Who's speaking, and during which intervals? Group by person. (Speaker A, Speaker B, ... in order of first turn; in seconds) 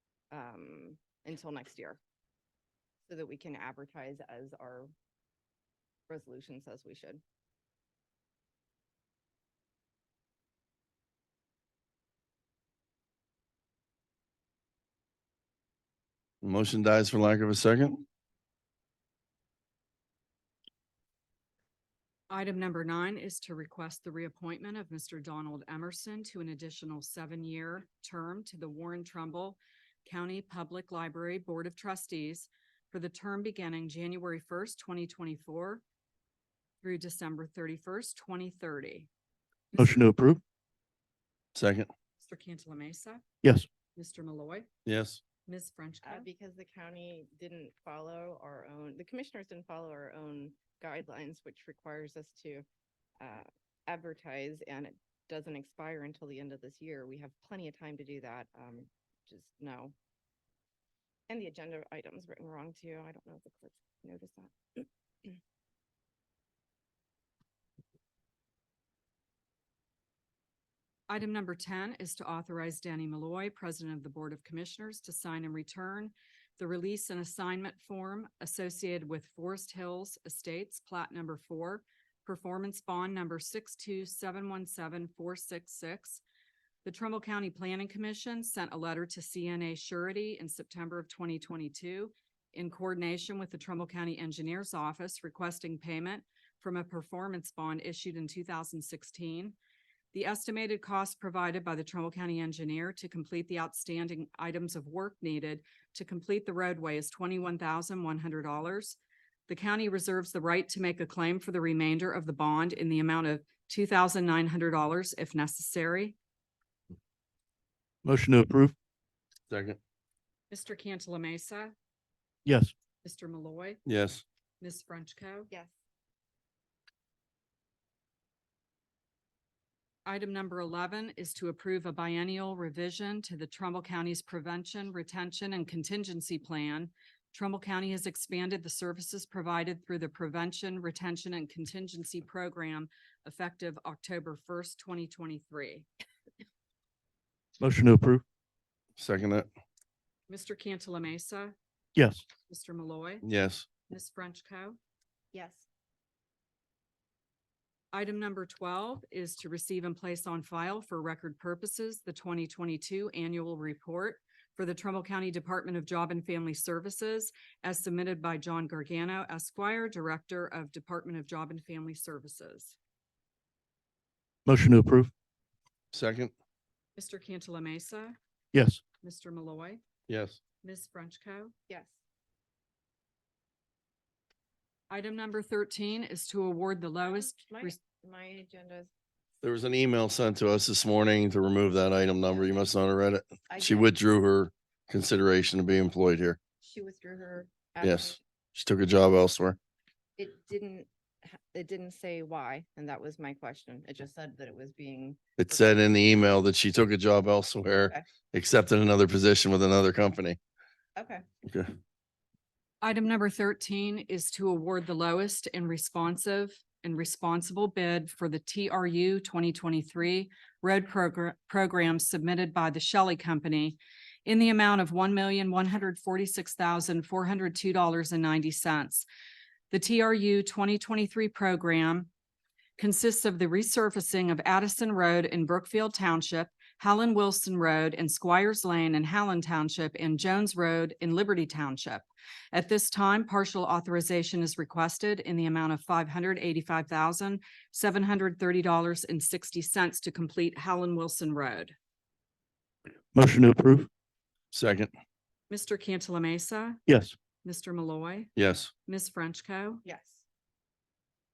Speaker A: 0.3-2.0, 3.1-4.9, 6.1-7.2, 46.0-52.7, 53.2-60.0, 61.3-65.4, 155.3-155.7, 181.7-182.0, 187.1-188.9, 192.3-192.7, 193.5-193.9, 196.6-198.2, 200.2-205.7, 211.0-211.2, 259.9-260.2
Speaker B: 16.4-18.0, 41.5-41.9, 44.9-45.2, 119.5-119.8, 123.9-124.2, 149.0-149.5, 153.2-153.7, 175.9-176.3, 180.1-180.4, 189.4-196.4, 197.8-199.6, 205.4-210.4, 211.5-211.7, 254.5-254.9, 258.4-258.7
Speaker C: 22.3-35.8, 36.8-39.1, 42.2-43.2, 44.0-44.7, 45.5-46.3, 71.1-86.2, 86.8-99.5, 100.1-116.2, 120.5-121.7, 123.0-123.8, 124.6-125.5, 130.1-145.9, 150.3-151.5, 152.4-153.2, 153.9-154.8, 157.9-172.8, 177.0-178.2, 179.0-179.8, 180.6-181.5, 184.9-187.8, 212.8-229.1, 229.7-232.1, 232.8-251.8, 255.5-256.8, 257.4-258.3, 258.9-259.8
Speaker D: 39.8-40.4, 43.4-43.7, 118.0-118.8, 122.5-122.7, 147.6-148.2, 152.0-152.2, 174.5-175.1, 178.5-178.8, 253.1-253.9, 256.9-257.1